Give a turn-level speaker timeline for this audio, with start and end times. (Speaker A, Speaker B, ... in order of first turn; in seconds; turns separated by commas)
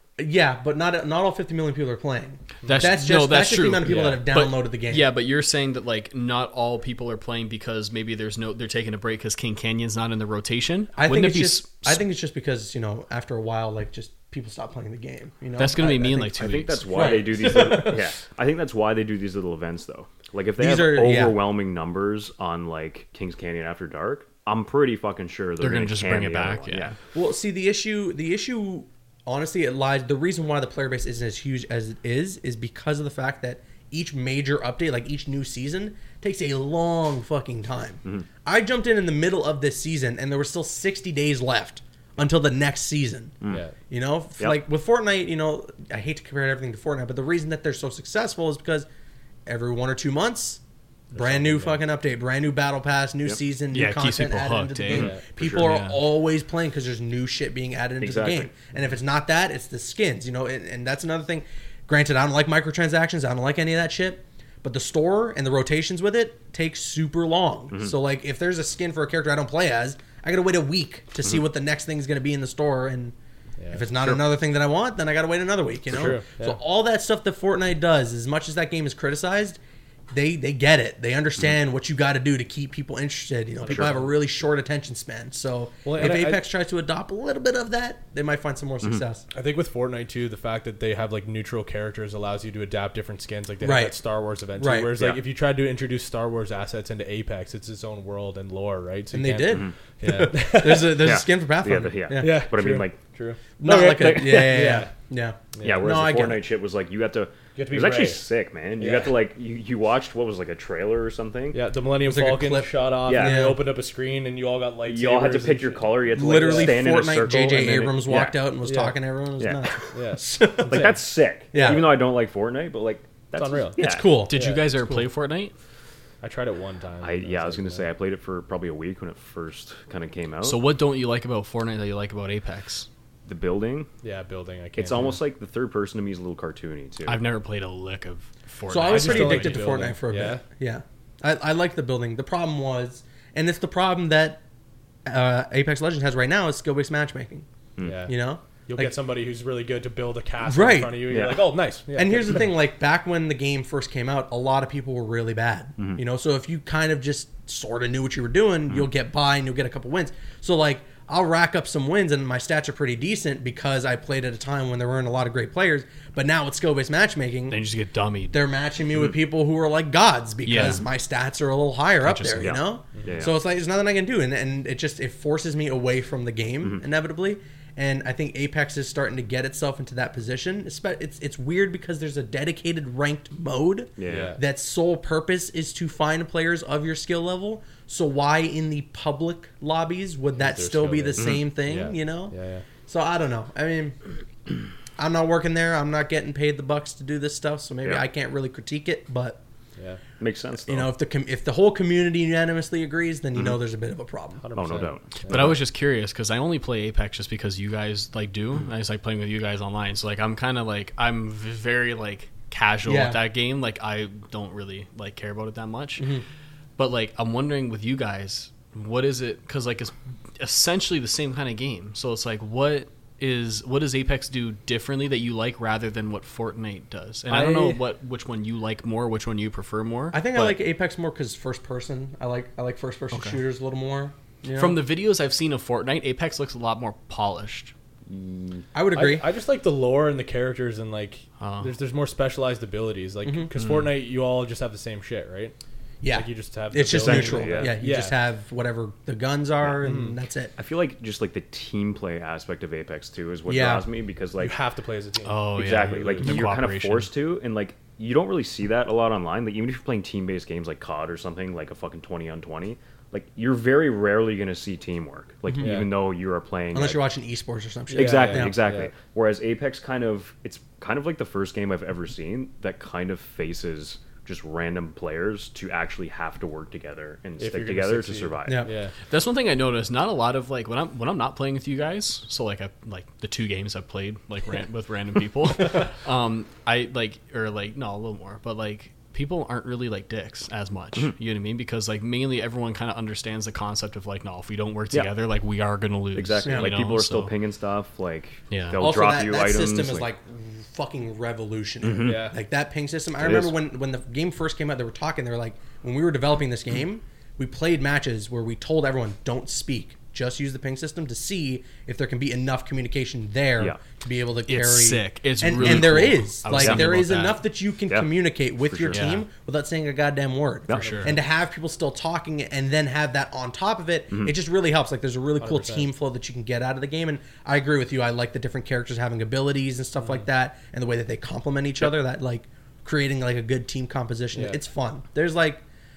Speaker A: 0.2-5.1, Speaker B: 2.6-3.0, Speaker C: 2.7-12.0, Speaker B: 3.9-4.1, Speaker A: 10.9-18.0, Speaker C: 15.6-17.1, Speaker D: 16.4-27.0, Speaker B: 17.4-17.9, Speaker A: 20.6-21.5, Speaker C: 25.6-26.9, Speaker A: 27.1-43.4, Speaker B: 43.5-43.8, Speaker A: 43.9-48.9, Speaker A: 49.5-50.6, Speaker B: 51.1-51.8, Speaker A: 51.1-73.2, Speaker C: 53.7-56.0, Speaker D: 54.9-55.7, Speaker B: 54.9-55.2, Speaker D: 58.0-58.5, Speaker B: 73.6-73.9, Speaker A: 73.7-79.6, Speaker B: 75.9-76.6, Speaker A: 80.1-89.3, Speaker B: 83.6-84.1, Speaker D: 83.7-84.0, Speaker B: 85.8-86.4, Speaker B: 89.3-101.2, Speaker A: 93.6-94.0, Speaker A: 94.5-95.0, Speaker D: 95.0-95.2, Speaker A: 99.1-102.5, Speaker D: 99.5-99.8, Speaker D: 101.0-103.0, Speaker B: 102.2-104.9, Speaker A: 103.6-106.5, Speaker D: 103.6-104.8, Speaker B: 105.5-106.0, Speaker D: 105.6-111.6, Speaker B: 107.6-108.2, Speaker B: 108.8-109.2, Speaker B: 111.5-116.8, Speaker A: 112.0-113.7, Speaker D: 113.1-113.5, Speaker D: 114.8-118.5, Speaker A: 116.2-121.0, Speaker B: 118.6-119.0, Speaker D: 119.4-119.7, Speaker B: 119.9-121.0, Speaker D: 120.7-124.1, Speaker A: 121.5-121.9, Speaker B: 123.4-123.8, Speaker A: 123.8-124.3, Speaker C: 124.3-125.5, Speaker B: 124.3-125.0, Speaker B: 126.2-127.9, Speaker D: 127.0-130.6, Speaker C: 130.4-132.9, Speaker D: 133.3-133.9, Speaker B: 134.0-135.2, Speaker D: 134.8-137.2, Speaker C: 137.1-139.6, Speaker A: 138.7-144.4, Speaker B: 138.8-140.4, Speaker A: 145.1-147.5, Speaker D: 147.8-148.1, Speaker B: 147.8-148.2, Speaker A: 148.1-149.0, Speaker B: 148.7-152.5, Speaker A: 150.4-151.2, Speaker D: 151.1-151.5, Speaker A: 151.9-167.6, Speaker C: 167.5-168.4, Speaker A: 168.3-192.3, Speaker C: 170.4-170.9, Speaker C: 172.0-172.6, Speaker D: 172.4-173.4, Speaker B: 173.0-173.3, Speaker D: 184.0-184.4, Speaker B: 184.1-184.4, Speaker B: 190.4-192.7, Speaker D: 191.2-191.4, Speaker A: 192.9-194.0, Speaker A: 195.0-199.4, Speaker D: 200.2-200.9, Speaker A: 200.7-204.4, Speaker B: 204.4-205.6, Speaker D: 204.6-205.6, Speaker C: 205.3-216.1, Speaker A: 212.8-213.2, Speaker A: 216.0-216.2, Speaker C: 216.8-230.6, Speaker A: 227.3-227.8, Speaker A: 230.1-234.8, Speaker C: 233.1-233.4, Speaker C: 234.5-237.7, Speaker D: 238.1-238.7, Speaker A: 238.7-239.3, Speaker B: 238.9-245.6, Speaker C: 241.4-241.7, Speaker A: 243.2-243.5, Speaker A: 246.0-250.5, Speaker B: 246.1-248.1, Speaker D: 246.9-247.8, Speaker B: 249.8-250.2, Speaker D: 250.6-254.6, Speaker A: 253.5-253.9, Speaker B: 254.4-256.4, Speaker C: 255.2-257.1, Speaker D: 255.6-267.0, Speaker A: 265.5-265.9, Speaker B: 265.6-265.9, Speaker A: 266.7-268.6, Speaker B: 267.9-268.9, Speaker D: 267.9-278.7, Speaker B: 277.4-278.9, Speaker A: 278.5-278.7, Speaker C: 279.1-297.3, Speaker D: 296.1-300.1, Speaker A: 296.4-296.7, Speaker C: 298.5-298.8, Speaker A: 298.8-335.6, Speaker D: 301.8-302.3, Speaker B: 302.0-302.3, Speaker D: 303.2-303.6, Speaker C: 314.5-317.4, Speaker D: 315.6-315.9, Speaker D: 316.5-316.8, Speaker D: 318.6-319.1, Speaker C: 318.9-319.2, Speaker D: 320.7-321.1, Speaker C: 320.7-321.1, Speaker B: 320.8-321.2, Speaker B: 325.4-325.9, Speaker B: 334.3-334.6